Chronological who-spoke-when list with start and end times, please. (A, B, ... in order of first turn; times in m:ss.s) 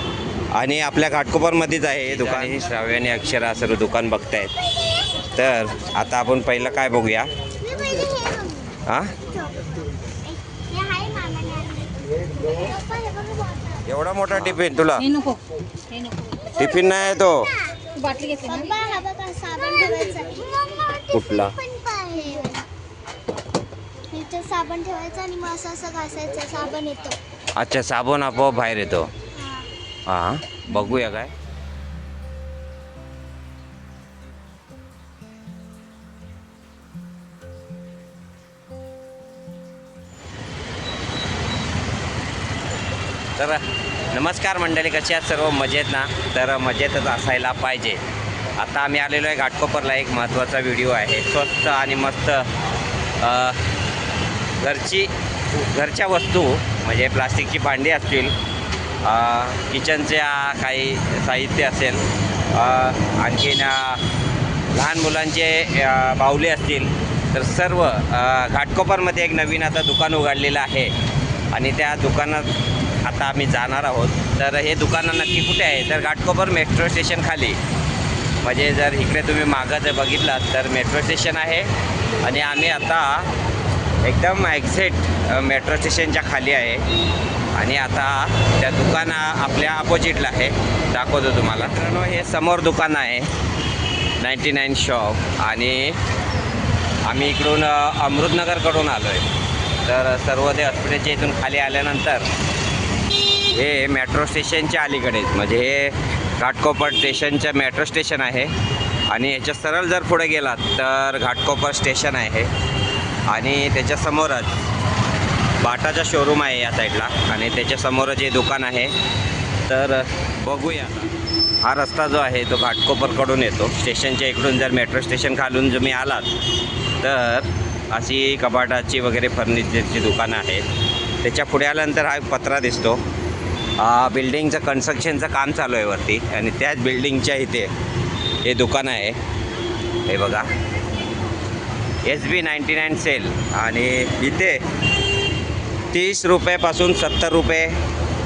0:00.5-0:04.5 A
0:05.4-0:07.3 A
0:07.6-0:09.7 B
0:08.9-0:09.1 A
0:10.2-0:13.9 B
0:13.9-0:15.1 A
0:15.0-0:16.6 C
0:16.6-0:17.5 A
0:16.6-0:17.8 B
0:18.0-0:18.8 C
0:18.4-0:22.7 B
0:21.1-0:21.6 A
0:24.1-0:27.2 B
0:27.6-0:29.1 A
0:29.3-0:29.7 B
0:30.1-0:31.3 A
0:43.4-0:48.0 A
0:48.6-0:52.5 A
0:53.2-0:53.6 A
0:54.6-0:55.1 A
0:55.7-0:58.4 A
0:59.0-1:04.0 A
1:04.7-1:10.9 A
1:11.5-1:12.5 A
1:13.0-1:17.6 A
1:18.4-1:21.7 A
1:22.2-1:23.3 A
1:24.0-1:26.8 A
1:27.6-1:33.3 A
1:34.2-1:36.0 A
1:37.1-1:39.2 A
1:39.8-1:42.3 A
1:43.5-1:48.5 A
1:49.1-1:52.5 A
1:53.3-1:54.6 A
1:55.6-1:58.9 A
1:59.7-2:01.1 A
2:01.6-2:06.3 A
2:07.0-2:10.6 A
2:11.2-2:13.0 A
2:13.8-2:17.7 A
2:18.4-2:19.2 A
2:20.1-2:20.5 A
2:22.0-2:24.6 A
2:25.9-2:27.8 A